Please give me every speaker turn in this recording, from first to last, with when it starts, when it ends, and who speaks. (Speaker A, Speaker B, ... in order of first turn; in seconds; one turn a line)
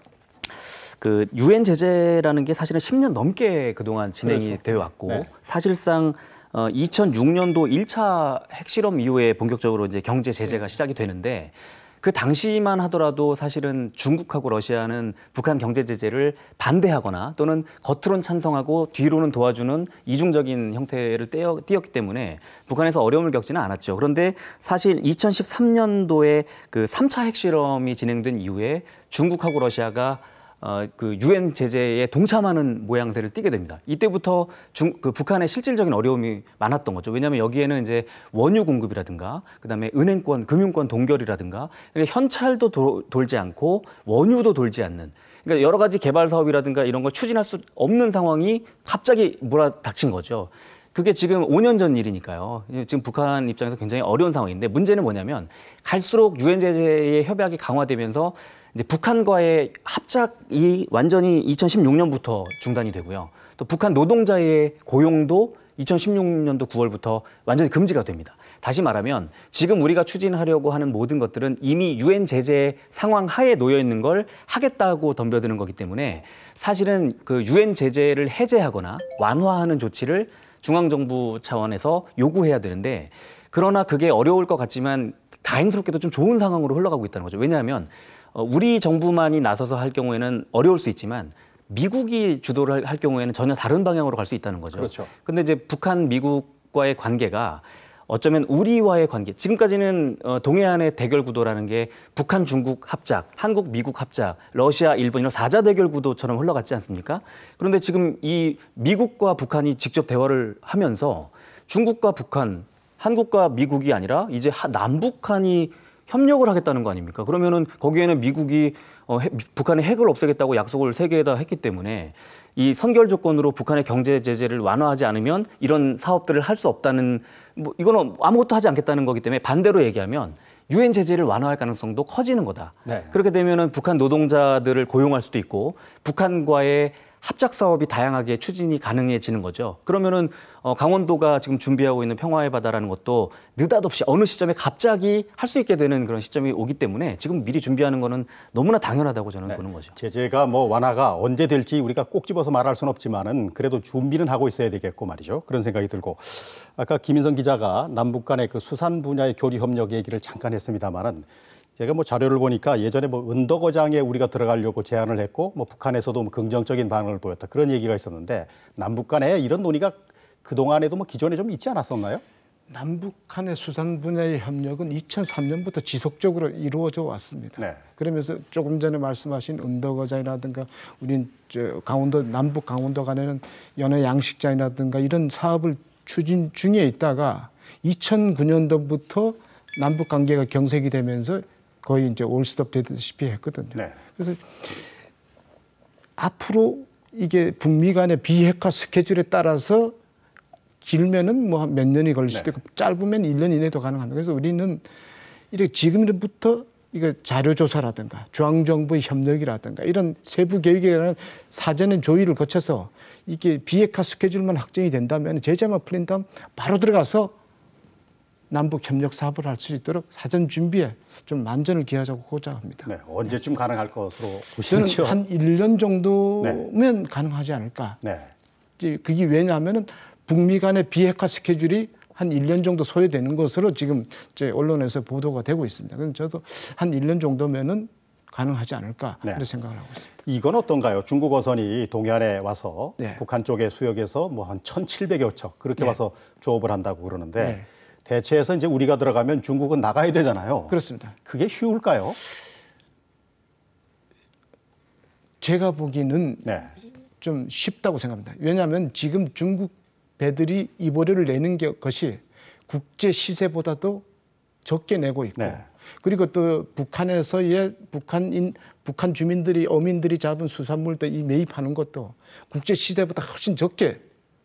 Speaker A: 0.5-149.9
Speaker B: 94.7-95.1
Speaker B: 132.8-133.1
Speaker B: 149.5-161.3
Speaker B: 161.8-172.2
Speaker C: 172.7-194.4
Speaker C: 196.2-199.9
Speaker C: 200.8-204.8
Speaker C: 205.5-217.3
Speaker C: 218.5-222.9
Speaker B: 222.8-225.2
Speaker C: 224.7-228.0
Speaker B: 228.0-228.3
Speaker C: 228.8-240.2
Speaker B: 240.2-252.2
Speaker C: 247.4-247.7
Speaker C: 250.7-251.1
Speaker C: 255.4-256.4
Speaker B: 256.4-256.7
Speaker C: 257.2-264.0
Speaker C: 264.6-274.0
Speaker B: 265.4-265.6